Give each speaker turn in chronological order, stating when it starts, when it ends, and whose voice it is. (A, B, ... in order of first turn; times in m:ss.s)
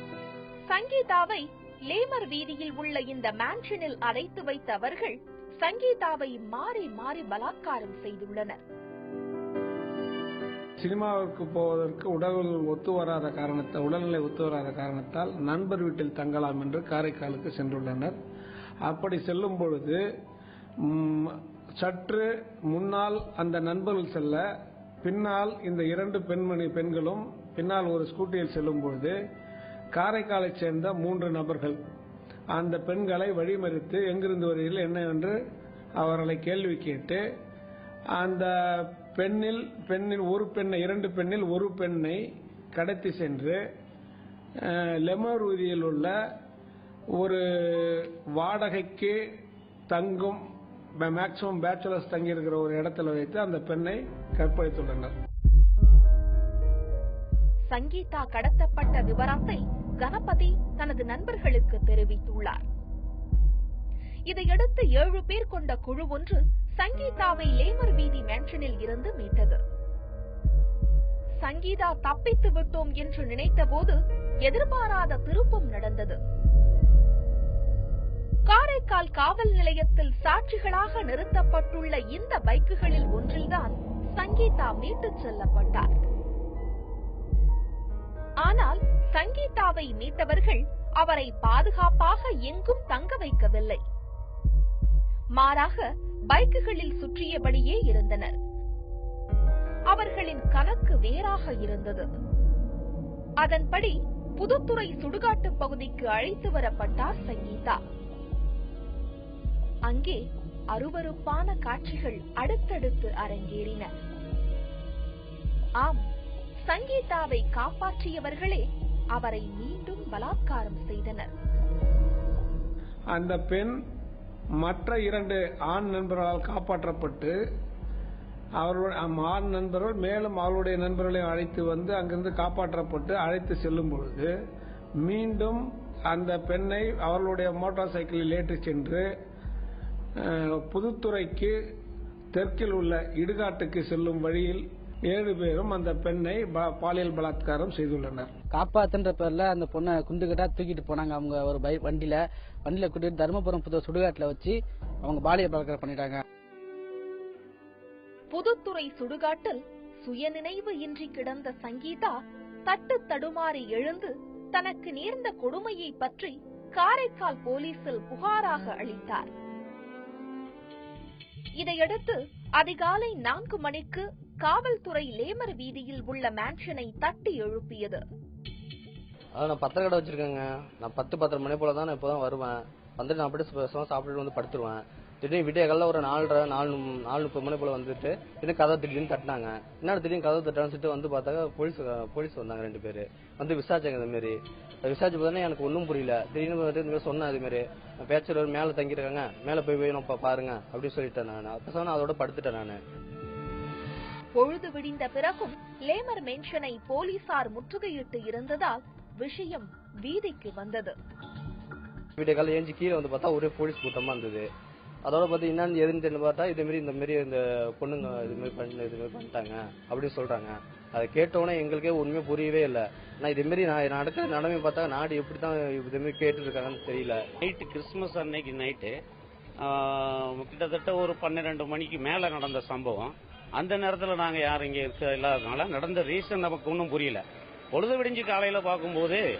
0:00.7-0:08.6 A
0:10.8-0:18.2 B
0:18.8-0:20.0 B
0:20.9-0:24.4 B
0:25.0-0:29.2 B
0:29.9-0:31.8 B
0:32.5-0:35.4 B
0:36.0-0:37.2 B
0:38.2-0:42.2 B
0:42.7-0:43.6 B
0:44.7-0:46.1 B
0:47.2-0:49.2 B
0:49.9-0:50.4 B
0:51.0-0:55.1 B
0:57.7-1:02.6 A
1:04.3-1:09.6 A
1:11.4-1:16.2 A
1:18.5-1:25.9 A
1:28.4-1:33.8 A
1:35.4-1:38.3 A
1:39.9-1:42.0 A
1:43.4-1:47.8 A
1:49.9-1:53.9 A
1:56.7-2:01.3 A
2:03.1-2:03.7 B
2:04.6-2:07.3 B
2:08.6-2:14.3 B
2:15.0-2:19.0 B
2:20.2-2:21.5 B
2:22.3-2:28.3 B
2:28.5-2:36.2 C
2:38.3-2:42.1 A
2:42.6-2:49.3 A
2:51.6-2:58.0 A
2:59.4-3:22.8 D
3:24.3-3:30.9 A
3:32.2-3:34.5 D
3:35.0-3:47.2 D
3:47.4-3:49.0 E
3:49.6-3:59.2 E